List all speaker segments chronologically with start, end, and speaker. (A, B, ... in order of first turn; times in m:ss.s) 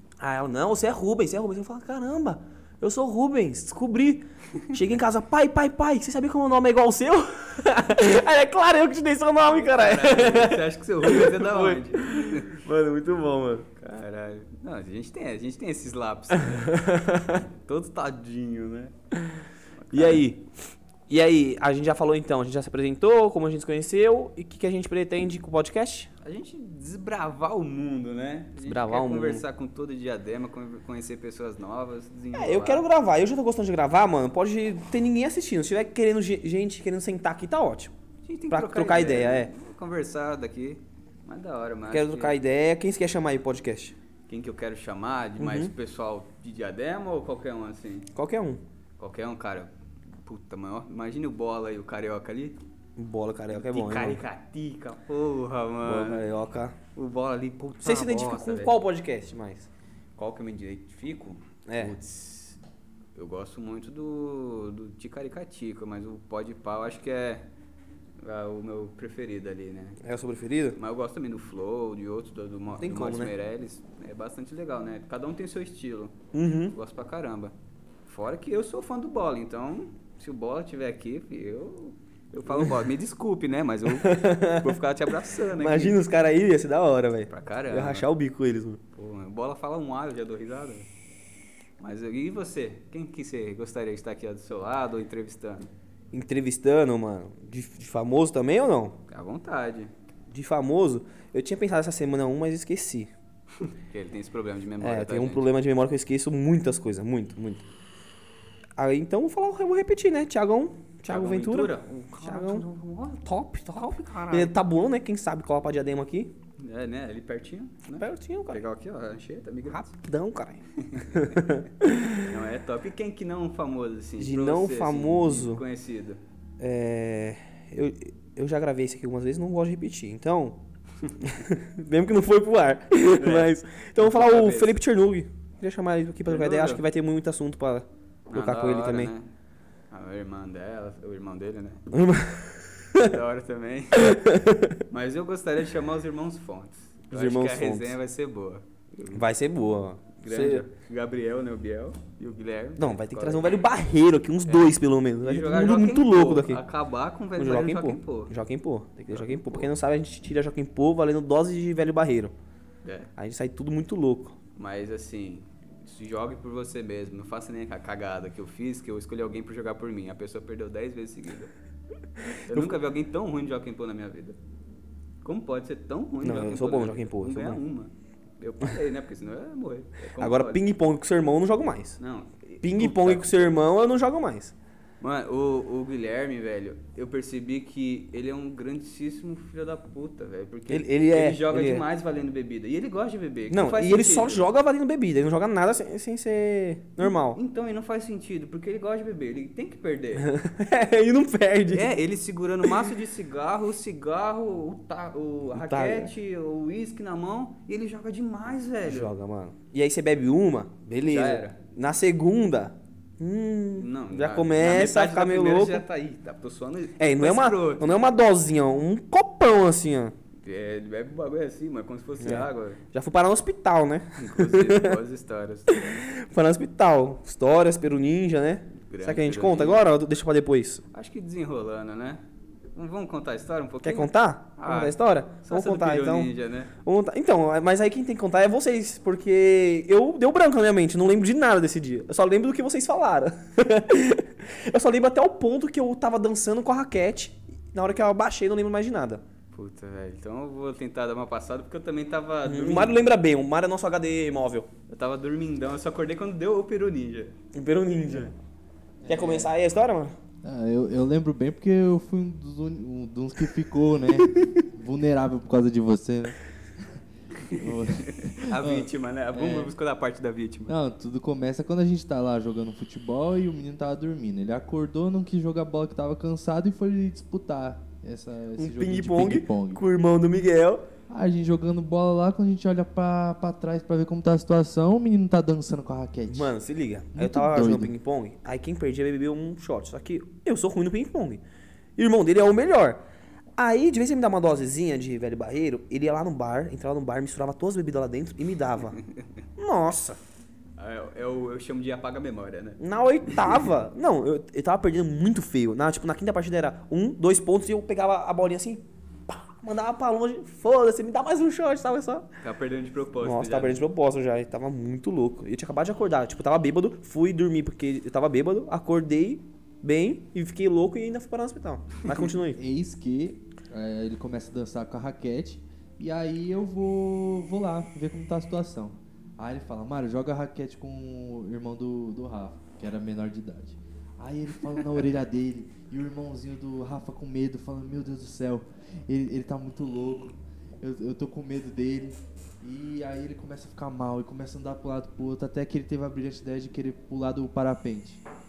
0:00.2-0:13.7 A
0:09.5-0:12.6 B
0:13.8-0:16.8 B
0:16.7-0:17.4 A
0:17.6-0:18.9 B
0:19.8-0:20.2 B
0:19.9-0:20.4 A
0:21.1-0:26.1 A
0:26.2-0:32.8 B
0:28.6-0:29.4 A
0:32.3-0:37.9 A
0:38.2-0:42.4 B
0:38.5-0:39.5 A
0:41.9-0:43.9 A
0:44.3-0:48.1 B
0:45.4-0:45.7 A
0:48.1-0:48.6 A
0:49.0-0:49.7 B
0:50.2-0:52.6 B
0:53.0-0:54.2 A
0:53.5-0:56.2 B
0:55.8-0:56.8 A
0:56.9-0:58.7 B
0:57.8-0:59.7 A
1:00.2-1:02.6 B
1:01.7-1:02.0 A
1:03.2-1:07.4 B
1:08.2-1:10.0 B
1:10.0-1:10.8 A
1:10.8-1:16.2 B
1:12.8-1:13.3 A
1:16.3-1:16.8 A
1:16.7-1:17.5 B
1:18.0-1:26.0 B
1:23.9-1:24.8 A
1:25.6-1:28.8 A
1:27.3-1:28.1 B
1:28.9-1:30.9 B
1:31.8-1:35.7 B
1:36.1-1:39.0 A
1:39.1-1:39.9 B
1:40.3-1:43.1 A
1:43.6-1:45.4 B
1:44.8-1:47.6 A
1:48.8-1:52.7 A
1:51.1-1:54.5 B
1:53.2-1:56.3 A
1:56.6-1:59.9 B
1:58.0-1:58.6 A
1:59.7-2:02.2 A
2:00.8-2:01.4 B
2:02.2-2:06.2 B
2:04.2-2:05.6 A
2:06.6-2:10.6 A
2:11.2-2:19.1 A
2:13.2-2:14.8 B
2:16.3-2:16.8 B
2:18.3-2:19.3 B
2:19.9-2:21.8 B
2:21.9-2:23.1 A
2:23.0-2:24.2 B
2:24.0-2:24.8 A
2:24.9-2:29.2 B
2:27.1-2:28.0 A
2:29.1-2:30.6 A
2:30.2-2:33.4 B
2:32.8-2:36.6 A
2:34.5-2:38.3 B
2:37.4-2:42.3 A
2:39.1-2:39.7 B
2:42.8-2:43.1 B
2:43.2-2:44.4 A
2:44.6-2:51.5 B
2:52.4-2:54.4 B
2:55.2-3:00.6 B
2:56.2-2:57.6 A
3:00.2-3:02.0 A
3:02.0-3:03.3 B
3:02.6-3:04.5 A
3:05.0-3:14.4 B
3:10.7-3:11.8 A
3:13.5-3:17.4 A
3:17.0-3:20.3 B
3:20.2-3:21.9 A
3:21.7-3:29.1 B
3:25.5-3:26.1 A
3:28.8-3:35.8 A
3:31.0-3:31.5 B
3:33.8-3:38.0 B
3:37.0-3:40.1 A
3:40.4-3:42.8 B
3:42.2-3:45.0 A
3:44.2-3:46.0 B
3:46.0-3:50.8 A
3:48.8-3:49.8 B
3:50.9-3:52.2 B
3:52.7-3:56.7 B
3:53.8-4:09.2 A
4:09.5-4:13.0 B
4:12.4-4:14.7 A
4:14.9-4:17.4 B
4:17.5-4:18.3 A
4:19.0-4:19.5 C
4:19.1-4:20.1 A
4:20.4-4:26.9 C
4:27.4-4:30.7 B
4:27.5-4:29.7 C
4:30.7-4:39.8 C
4:38.6-4:40.8 A
4:41.1-4:46.5 C
4:46.3-4:51.4 A
4:47.1-4:47.9 C
4:52.0-4:53.0 A
4:53.6-4:59.0 A
4:59.6-5:00.2 A
5:00.8-5:02.8 B
5:02.8-5:12.3 A
5:12.4-5:13.8 B
5:13.2-5:22.6 A
5:22.6-5:48.2 C